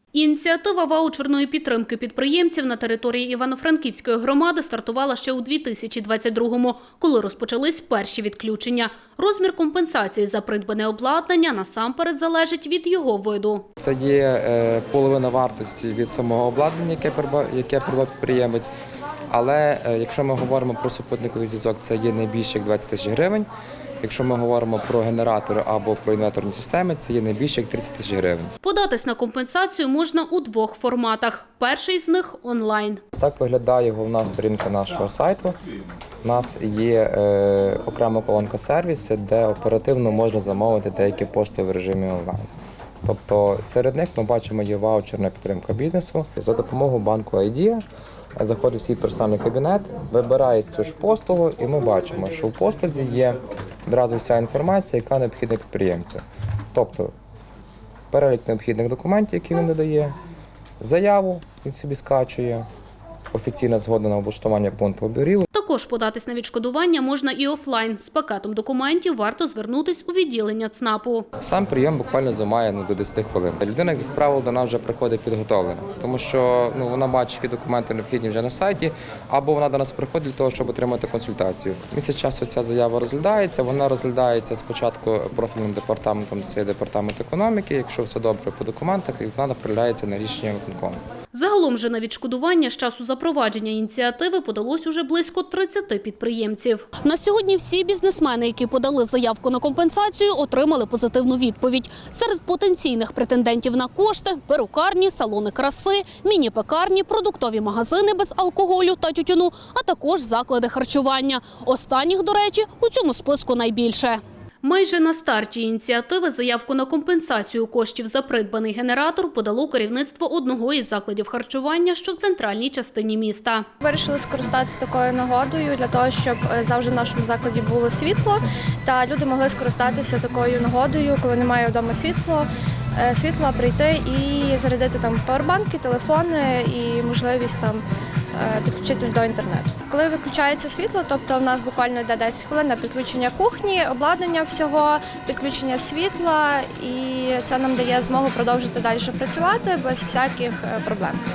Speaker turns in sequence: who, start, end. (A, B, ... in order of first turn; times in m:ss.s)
0:00.1-0:13.7 A
0:13.8-0:18.7 B
0:19.3-0:23.5 B
0:24.0-0:28.5 B
0:28.6-0:33.0 A
0:33.2-0:35.6 B
0:36.2-0:42.5 B
0:43.0-0:47.8 B
0:48.4-0:57.1 B
0:58.1-1:00.1 B
1:00.8-1:02.6 B
1:03.3-1:05.5 B
1:05.5-1:11.3 A
1:11.4-1:31.0 B
1:31.3-2:03.7 A
2:03.8-2:17.8 C
2:18.3-2:31.2 C